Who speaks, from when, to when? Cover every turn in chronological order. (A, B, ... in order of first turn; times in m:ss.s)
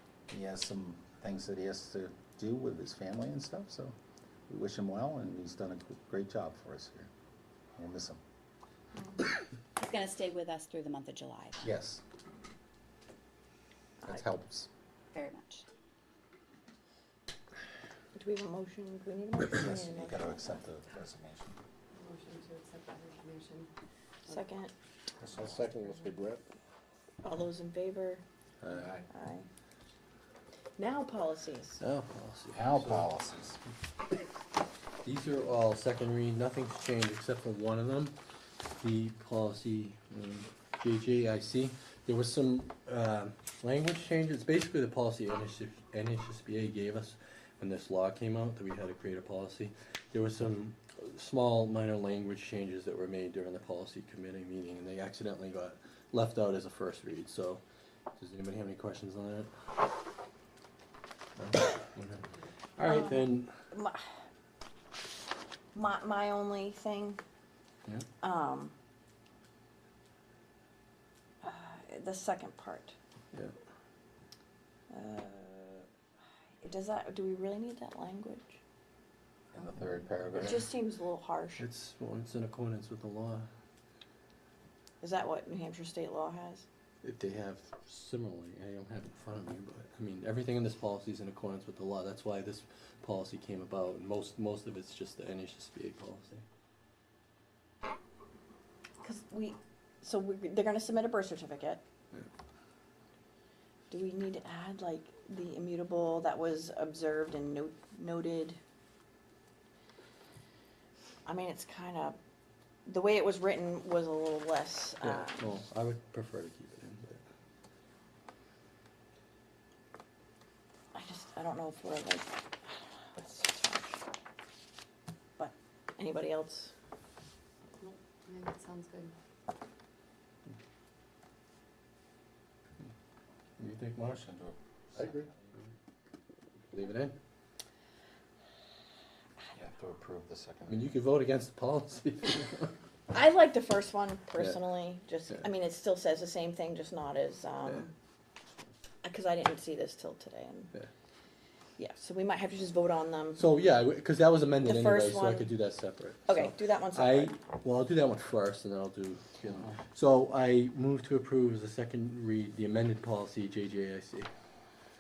0:00.3-0:03.9 A
0:04.5-0:07.1 A
0:07.8-0:08.2 A
0:09.8-0:11.7 B
0:11.6-0:12.0 A
0:14.0-0:14.7 A
0:15.1-0:15.6 B
0:18.1-0:20.5 C
0:19.5-0:21.6 A
0:22.0-0:23.7 D
0:24.3-0:24.7 C
0:25.2-0:25.8 A
0:25.4-0:26.3 E
0:25.8-0:26.1 D
0:27.2-0:28.2 C
0:28.6-0:29.0 A
0:29.1-0:29.5 C
0:30.8-0:31.8 C
0:31.8-0:33.1 E
0:32.5-0:33.6 A
0:35.0-0:38.1 E
0:38.8-0:57.6 E
0:58.2-0:59.5 E
1:01.4-1:03.5 E
1:02.8-1:04.0 C
1:05.7-1:07.2 C
1:08.2-1:08.7 C
1:11.4-1:12.9 C
1:14.9-1:15.9 C
1:16.6-1:18.6 C
1:19.5-1:20.7 A
1:19.9-1:20.7 E
1:20.4-1:21.6 C
1:21.6-1:23.5 E
1:25.0-1:26.6 C
1:27.0-1:36.4 E
1:39.0-1:41.8 C
1:43.9-1:48.6 C
1:51.2-1:52.2 C
1:52.8-1:55.4 C
1:55.0-1:57.2 E
2:00.9-2:04.0 C
2:05.4-2:06.7 C
2:07.8-2:09.1 D
2:13.6-2:14.2 E
2:14.1-2:15.3 A
2:15.0-2:15.7 E
2:16.7-2:17.2 E
2:19.5-2:21.0 A
2:20.7-2:22.7 E
2:23.1-2:27.9 C
2:24.4-2:24.6 E
2:29.0-2:30.7 C
2:31.8-2:33.4 C
2:33.3-2:44.3 E
2:34.6-2:35.5 C
2:36.3-2:37.3 C